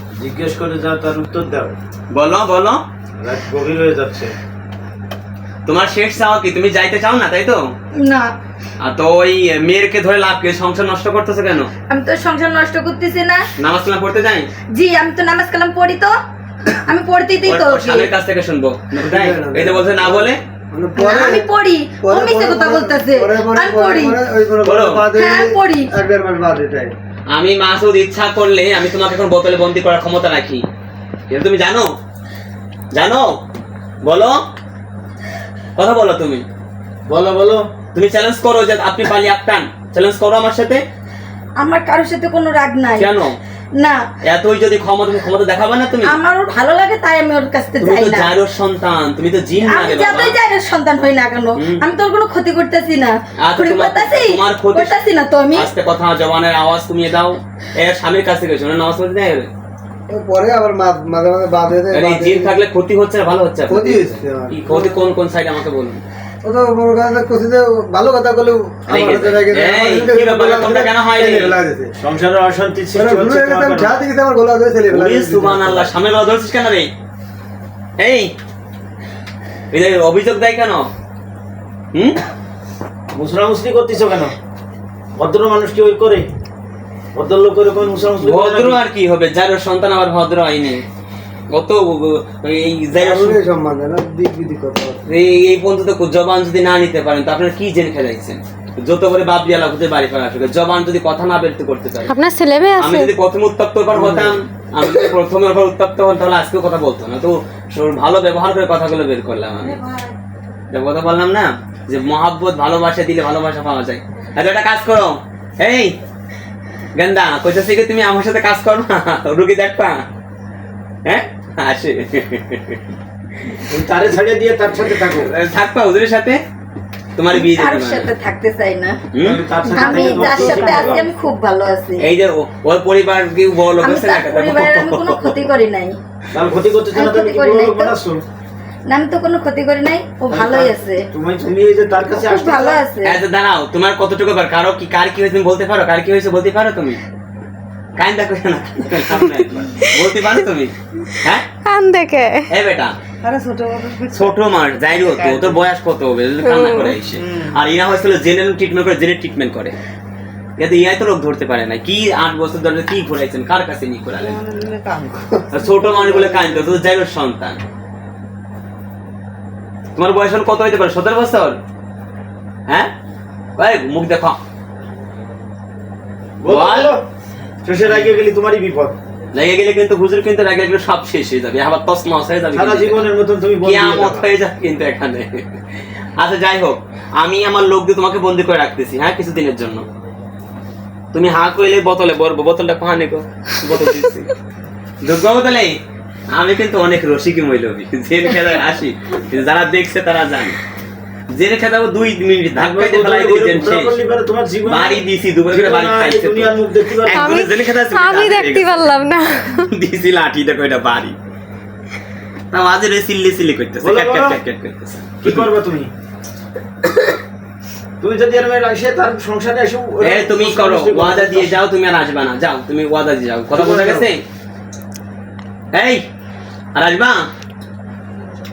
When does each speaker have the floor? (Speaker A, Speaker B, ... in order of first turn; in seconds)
Speaker A: 0.2-1.8, 3.2-4.3, 37.1-37.6, 72.0-74.0, 83.1-84.3, 85.2-86.3, 87.2-88.8, 123.7-125.3, 129.2-131.1, 136.3-138.2, 140.3-142.8, 176.4-177.1, 177.7-179.0, 182.5-184.3, 202.6-207.3, 213.8-214.4, 215.2-215.9, 218.0-221.6, 223.5-224.1
Speaker B: 2.1-2.8, 5.7-7.6, 8.8-11.7, 13.6-14.5, 17.5-20.4, 24.6-25.1, 27.3-30.6, 31.3-31.9, 32.9-33.3, 34.0-34.4, 35.8-36.5, 37.9-40.8, 43.0-43.4, 44.2-46.2, 47.8-50.4, 51.6-51.8, 53.4-54.9, 55.5-59.5, 61.9-66.0, 68.9-71.6, 74.9-76.9, 78.0-78.3, 79.7-80.9, 81.9-82.2, 88.2-90.8, 91.5-93.4, 95.1-102.2, 102.8-109.8, 110.7-116.0, 117.0-120.0, 121.0-122.8, 125.2-126.4, 127.2-128.1, 129.1-129.4, 132.0-135.4, 143.0-147.0, 148.0-151.5, 152.5-152.9, 154.1-159.7, 160.6-164.4, 165.5-167.6, 170.0-171.6, 173.6-174.4, 176.5-176.9, 179.3-183.1, 183.6-185.4, 186.2-189.8, 191.1-194.3, 195.0-195.8, 196.3-200.6, 201.3-204.0, 204.7-208.8, 209.7-211.2, 212.5-215.5, 220.0-224.2, 225.7-226.1, 226.8-227.3
Speaker C: 8.0-8.3, 11.9-13.4, 14.7-16.1, 16.7-18.1, 21.0-24.2, 25.1-25.9, 41.6-43.1, 46.1-48.3, 49.6-55.7, 127.3-129.0, 129.7-132.1, 133.8-136.0, 136.9-138.0, 138.9-141.0, 142.2-143.2
Speaker D: 19.0-21.5, 22.0-26.9, 60.1-62.5, 63.7-65.1, 66.4-71.9, 72.9-75.9, 93.0-95.0, 103.9-104.4, 153.2-154.4, 164.2-166.6
Speaker E: 102.1-103.1, 149.2-150.4, 151.6-152.5, 156.4-157.0, 207.1-209.7